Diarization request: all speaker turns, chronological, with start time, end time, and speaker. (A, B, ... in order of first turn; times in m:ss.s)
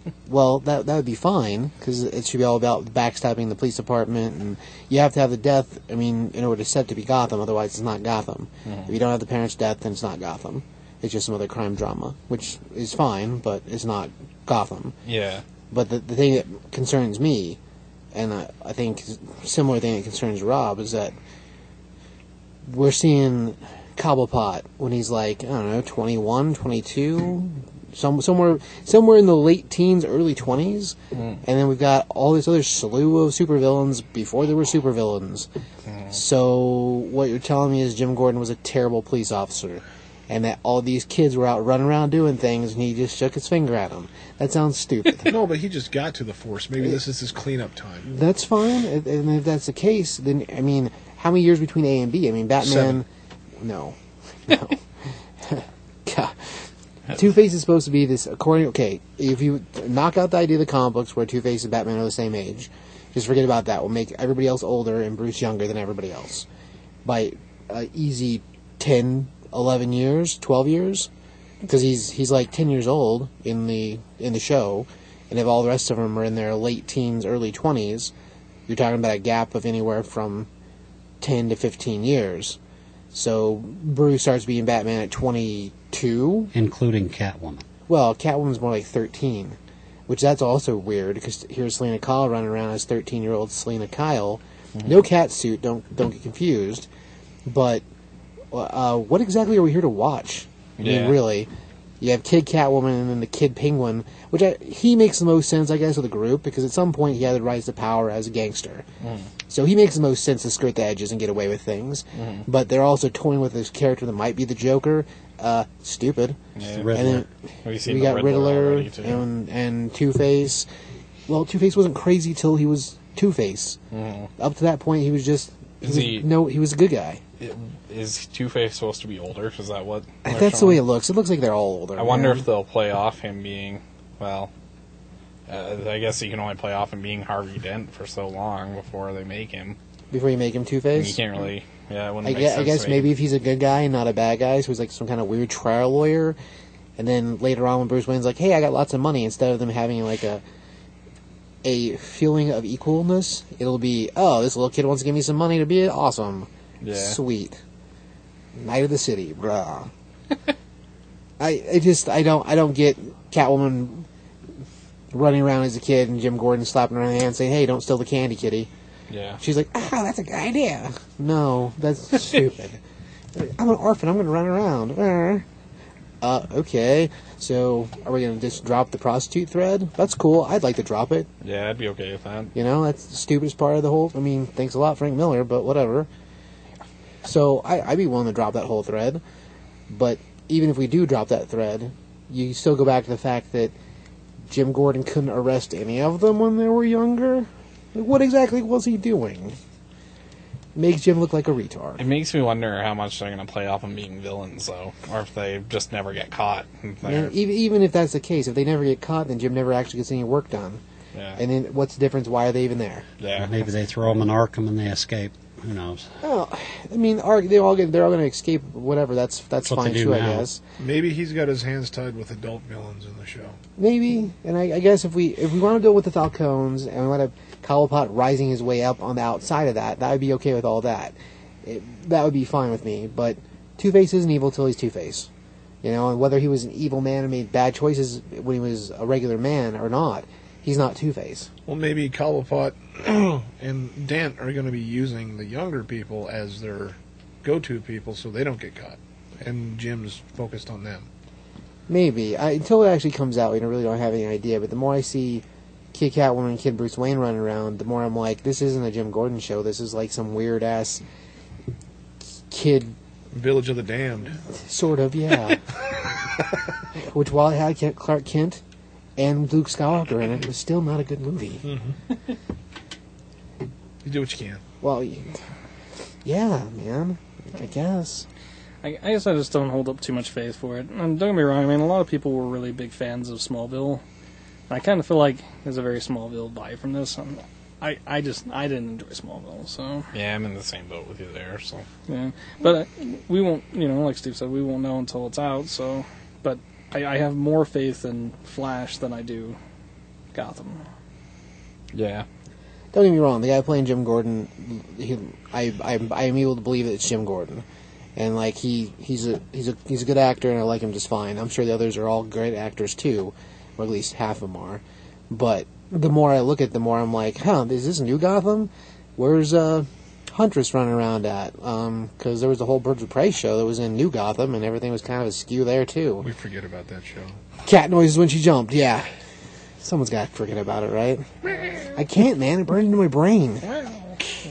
0:00.3-0:15.0 A
0:08.7-0:09.0 B
0:15.1-0:15.4 B
0:15.7-0:17.6 A
0:18.1-0:21.2 A
0:22.7-0:35.5 A
0:31.1-0:31.4 B
0:35.9-0:36.2 B
0:36.1-0:45.3 A
0:45.3-0:48.1 C
0:48.0-0:53.1 A
0:52.6-0:53.0 C
0:53.6-1:06.5 A
1:07.0-1:11.1 A
1:11.6-1:18.1 A
1:18.7-1:20.5 A
1:21.2-1:22.6 A
1:23.1-1:26.5 A
1:26.5-1:27.6 D
1:27.9-1:36.9 A
1:37.5-1:37.8 A
1:38.5-1:41.5 A
1:40.8-1:41.2 B
1:42.0-1:48.9 A
1:49.0-1:49.3 B
1:49.5-1:56.4 A
1:52.2-1:52.5 B
1:56.6-1:57.0 B
1:56.7-1:57.2 D
1:56.9-1:57.3 A
1:57.6-1:59.2 B
1:57.8-2:00.7 A
2:01.3-2:03.8 A
2:03.9-2:04.3 B
2:04.4-2:07.2 A
2:05.8-2:06.3 B
2:07.4-2:10.8 B
2:10.2-2:12.5 A
2:12.0-2:14.5 B
2:15.5-2:19.8 B
2:20.1-2:21.2 A
2:21.0-2:23.1 B
2:22.2-2:26.4 A
2:27.0-2:30.4 A
2:31.6-2:37.6 A
2:36.8-2:37.2 B
2:38.6-2:39.9 A
2:41.4-2:44.1 A
2:45.1-2:48.7 A
2:49.1-2:49.4 B
2:49.4-2:52.8 A
2:53.3-2:55.5 A
2:56.2-3:01.3 A
3:01.4-3:02.5 B
3:02.6-3:06.1 A
3:07.2-3:09.2 A
3:09.9-3:13.8 A
3:14.5-3:19.6 A
3:20.8-3:22.0 A
3:22.0-3:27.3 B
3:27.0-3:30.8 A
3:31.2-3:31.4 B
3:31.4-3:33.1 A
3:33.2-3:33.6 B
3:33.4-3:36.1 D
3:36.2-3:40.6 A
3:39.7-3:40.5 D
3:40.8-3:43.6 C
3:43.8-3:55.3 A
3:55.8-4:01.5 A
4:01.7-4:11.1 C
4:11.9-4:21.0 A
4:22.5-4:23.0 A
4:23.3-4:24.4 C
4:24.5-4:25.6 A
4:27.0-4:28.6 A
4:29.2-4:31.7 A
4:31.6-4:32.0 C
4:34.0-4:34.6 C
4:34.8-4:35.4 A
4:36.2-4:38.3 A
4:38.8-4:44.0 E
4:44.7-4:50.1 E
4:50.1-4:51.9 B
4:52.1-4:59.6 E
5:00.3-5:00.8 E
5:01.9-5:02.3 B
5:02.9-5:07.6 A
5:08.2-5:26.3 A
5:26.2-5:27.4 C
5:27.6-5:29.1 A
5:29.8-5:31.3 A
5:31.4-5:32.0 C
5:31.9-5:33.7 A
5:33.6-5:34.4 C